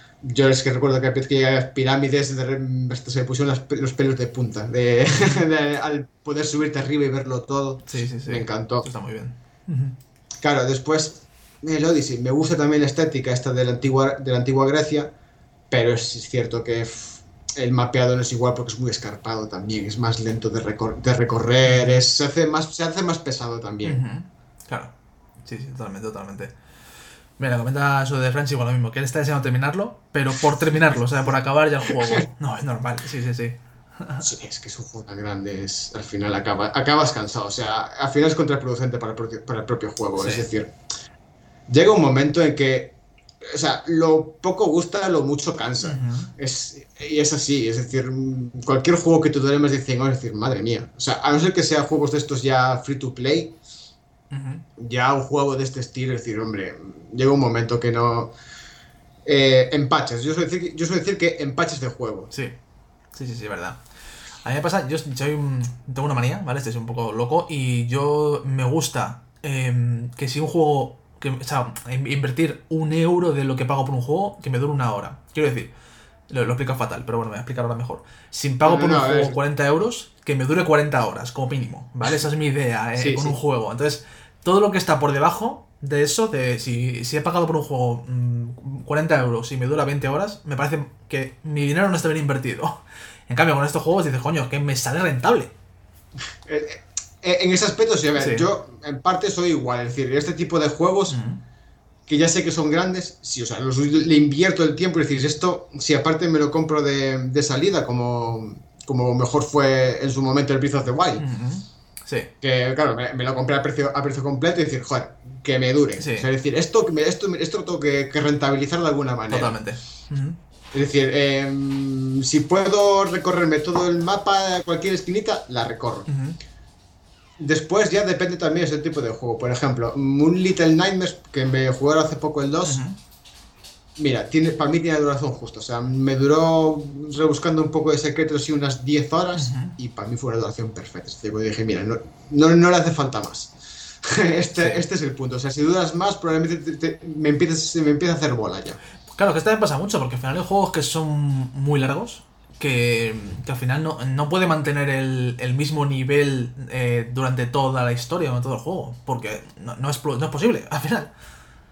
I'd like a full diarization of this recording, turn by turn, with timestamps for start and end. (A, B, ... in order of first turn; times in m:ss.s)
0:00.2-0:08.9 A
0:05.1-0:05.4 B
0:07.9-0:10.0 B
0:10.4-0:15.1 A
0:15.7-0:24.0 A
0:21.6-0:22.0 B
0:23.8-0:24.9 B
0:25.4-0:26.5 B
0:27.4-0:34.3 B
0:31.9-0:32.2 A
0:34.2-0:40.7 A
0:40.2-0:40.5 B
0:41.7-0:53.6 A
0:45.8-0:46.3 B
0:54.3-0:54.6 B
0:54.8-0:58.3 A
0:59.2-1:02.3 A
1:03.1-1:03.8 B
1:04.4-1:15.7 B
1:16.3-1:35.5 B
1:18.6-1:19.4 A
1:23.0-1:23.4 A
1:36.5-1:41.2 A
1:38.2-1:38.5 B
1:41.1-1:41.4 B
1:42.1-1:51.2 A
1:51.2-1:52.3 B
1:52.4-1:59.5 A
1:56.0-1:56.3 B
1:59.3-2:00.4 B
2:00.7-2:06.1 A
2:06.1-2:06.4 B
2:07.4-2:12.8 A
2:12.6-2:13.0 B
2:14.0-2:28.8 A
2:19.3-2:19.8 B
2:29.1-2:41.1 B